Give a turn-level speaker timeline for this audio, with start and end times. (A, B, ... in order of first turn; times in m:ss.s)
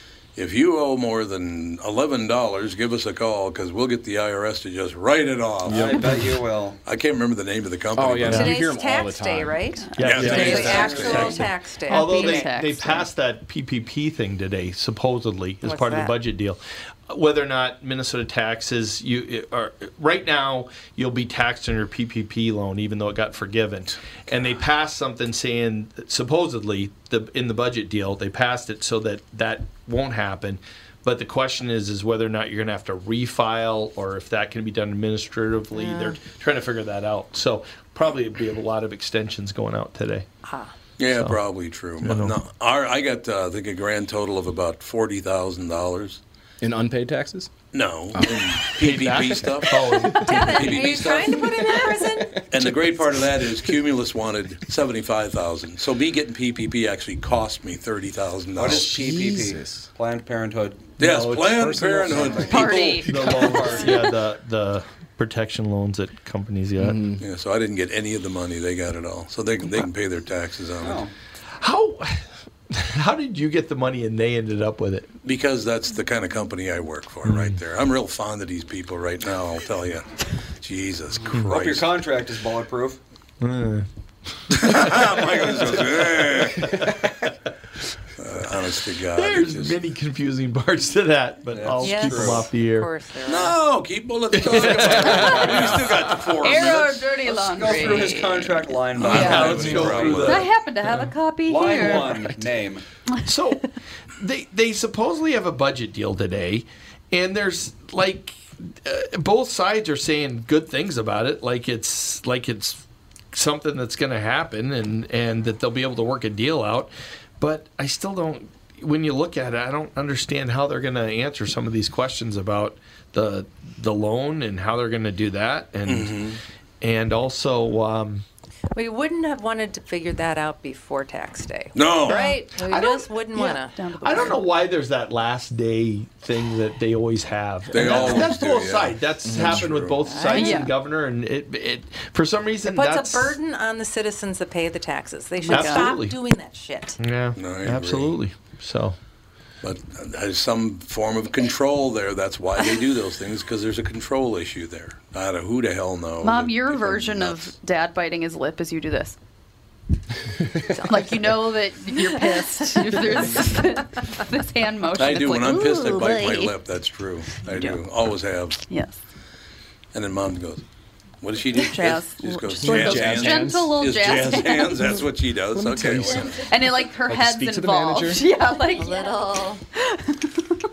0:00.4-0:06.2 A
0:05.7-0:06.4 B
0:05.7-0:06.8 C
0:06.8-0:08.5 A
0:08.0-0:11.0 B
0:08.3-0:08.5 D
0:08.3-0:12.5 E
0:09.8-0:10.2 F
0:10.0-0:40.3 D
0:10.0-0:11.4 A
0:10.2-0:11.4 C
0:11.1-0:13.1 F
0:15.6-0:16.2 E
0:35.8-0:36.2 E
0:40.4-0:40.7 E
0:41.0-0:46.2 A
0:41.1-0:41.4 D
0:42.0-0:42.4 D
0:46.6-0:47.5 B
0:47.7-0:51.5 A
0:48.1-0:53.7 B
0:48.8-0:51.0 D
0:50.1-0:52.5 E
0:52.5-0:58.9 A
0:58.6-1:01.0 C
0:58.6-0:59.9 B
1:01.0-1:02.7 A
1:01.0-1:07.0 D
1:01.5-1:02.6 B
1:02.1-1:03.9 C
1:02.4-1:04.0 F
1:06.8-1:07.2 B
1:07.2-1:11.0 A
1:10.8-1:11.1 C
1:11.6-1:15.1 D
1:15.2-1:21.9 A
1:17.2-1:17.6 D
1:21.2-1:23.0 C
1:23.4-1:23.9 D
1:24.5-1:25.0 D
1:24.5-1:26.9 A
1:26.6-1:27.1 D
1:28.2-1:29.8 A
1:29.1-1:32.9 D
1:31.5-1:32.5 C
1:31.8-1:33.6 E
1:33.3-1:37.0 A
1:34.3-1:36.0 D
1:34.8-1:42.3 F
1:37.2-1:40.5 C
1:39.0-1:40.5 A
1:39.0-1:41.1 D
1:41.5-1:42.8 C
1:43.2-2:06.3 D
2:05.9-2:06.4 A
2:06.8-2:08.2 D
2:08.7-2:14.3 E
2:11.8-2:12.2 A
2:12.1-2:14.4 F
2:14.0-2:23.4 D
2:17.7-2:20.1 A
2:19.2-2:19.8 B
2:20.1-2:20.6 E
2:20.2-2:20.8 F
2:22.7-2:27.0 E
2:25.4-2:26.0 F
2:25.5-2:26.2 D
2:27.0-2:29.0 D
2:27.4-2:28.2 A
2:29.6-2:37.5 A
2:36.2-2:39.2 F
2:40.8-2:46.6 F
2:42.3-2:43.5 E
2:45.0-2:48.6 A
2:47.4-2:47.8 F
2:48.6-2:49.0 F
2:49.9-2:50.6 A
2:51.2-2:56.4 A
2:51.6-2:55.1 F
2:52.6-2:53.8 B
2:55.6-2:56.3 B
2:56.4-3:00.2 F
2:57.0-2:58.3 B
2:58.8-2:59.6 E